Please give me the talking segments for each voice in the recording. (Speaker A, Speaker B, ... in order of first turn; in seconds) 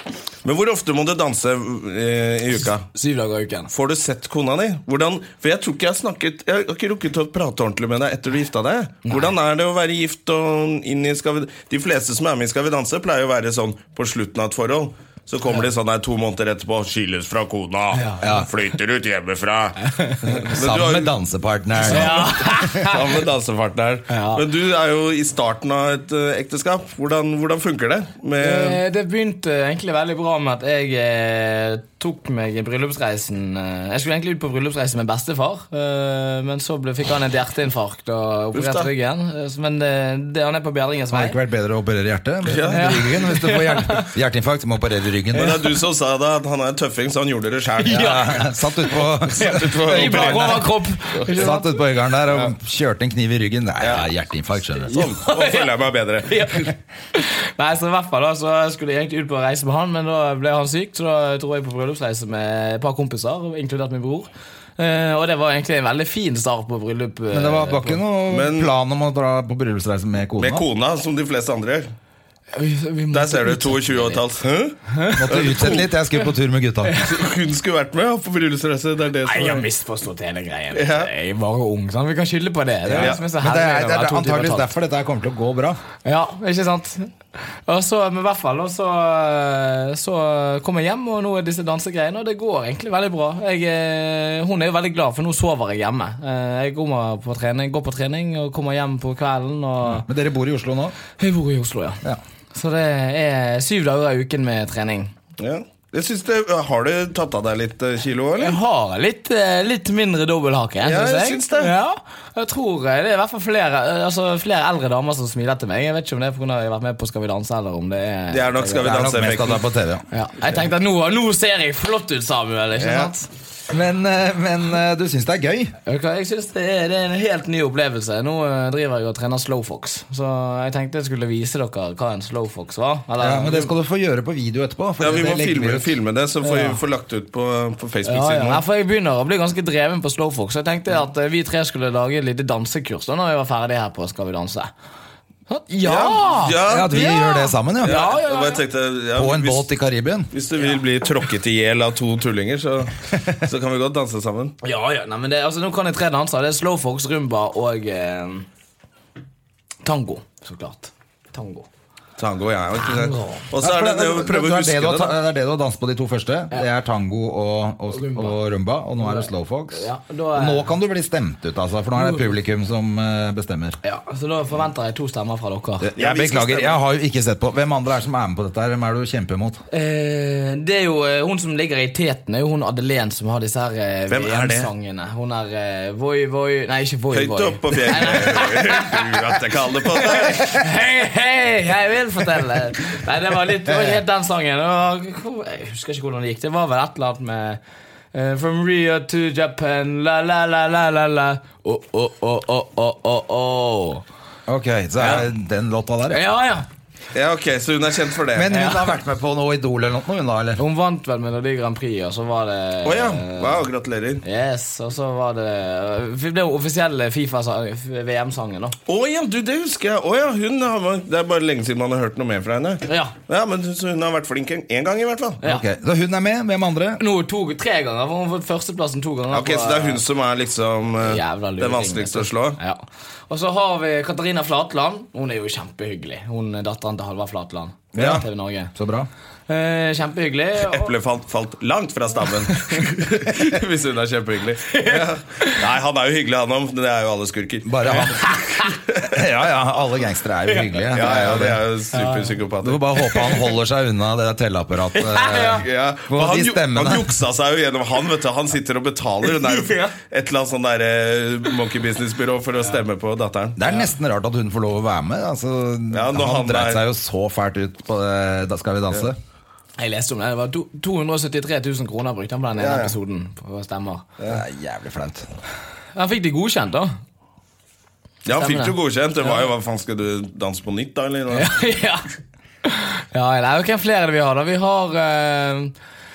Speaker A: 0.4-2.9, 3.7-21.1, 21.8-28.8, 38.5-38.9, 42.4-43.1, 45.3-48.3, 49.2-51.5, 53.8-54.1, 54.9-56.7, 68.3-68.7, 70.4-71.9, 73.1-75.9, 77.0-79.7, 80.7-81.1, 82.9-83.2, 105.4-108.6, 110.8-111.7, 118.3-119.6, 122.8-123.1, 135.0-138.6, 145.8-147.2, 147.8-149.7, 150.3-154.5, 162.2-165.1, 176.0-176.8, 184.1-184.7, 187.1-190.6, 207.1-208.5, 212.8-214.2, 218.9-225.4, 229.3-232.6, 238.0-238.2, 240.6-247.9, 250.9-252.8, 255.4-263.6, 265.9-266.8, 272.6-272.9, 278.2-281.6
Speaker B: 2.9-3.7, 9.1-9.3, 17.9-18.4, 19.8-20.4, 21.9-23.1, 24.1-24.4, 28.4-41.4, 42.7-44.1, 47.8-51.8, 54.9-68.0, 72.5-74.2, 74.9-75.5, 76.8-77.2, 79.2-84.7, 86.0-100.1, 101.2-102.0, 102.5-105.1, 108.4-118.9, 120.1-123.3, 125.8-133.7, 136.4-136.8, 138.0-144.7, 145.5-148.6, 154.6-158.4, 159.8-161.7, 162.8-163.5, 167.9-168.4, 169.0-170.7, 171.9-172.3, 173.8-175.9, 179.7-189.2, 189.9-197.6, 198.1-204.0, 206.1-206.7, 208.5-208.9, 210.6-213.6, 214.2-218.8, 222.9-223.1, 227.0-230.0, 231.0-238.7, 239.5-240.9, 242.5-242.8, 244.7-245.6, 247.9-248.8, 251.9-252.4, 254.9-255.6, 259.3-259.9, 269.8-274.0, 275.9-276.9, 278.3-278.8, 281.3-282.1, 282.6-285.7
Speaker C: 18.2-18.5, 20.5-22.7, 41.1-45.6, 47.9-50.7, 51.3-55.0, 67.3-70.6, 75.1-76.9, 82.8-85.8, 99.8-100.9, 118.8-120.0, 123.7-125.7, 133.2-135.9, 146.6-148.0, 149.1-150.3, 163.6-173.8, 175.8-179.6, 204.5-206.2, 208.3-210.6, 225.4-227.0, 237.9-239.1, 247.6-248.3, 249.0-251.6, 252.6-257.1, 263.6-269.2, 274.3-275.3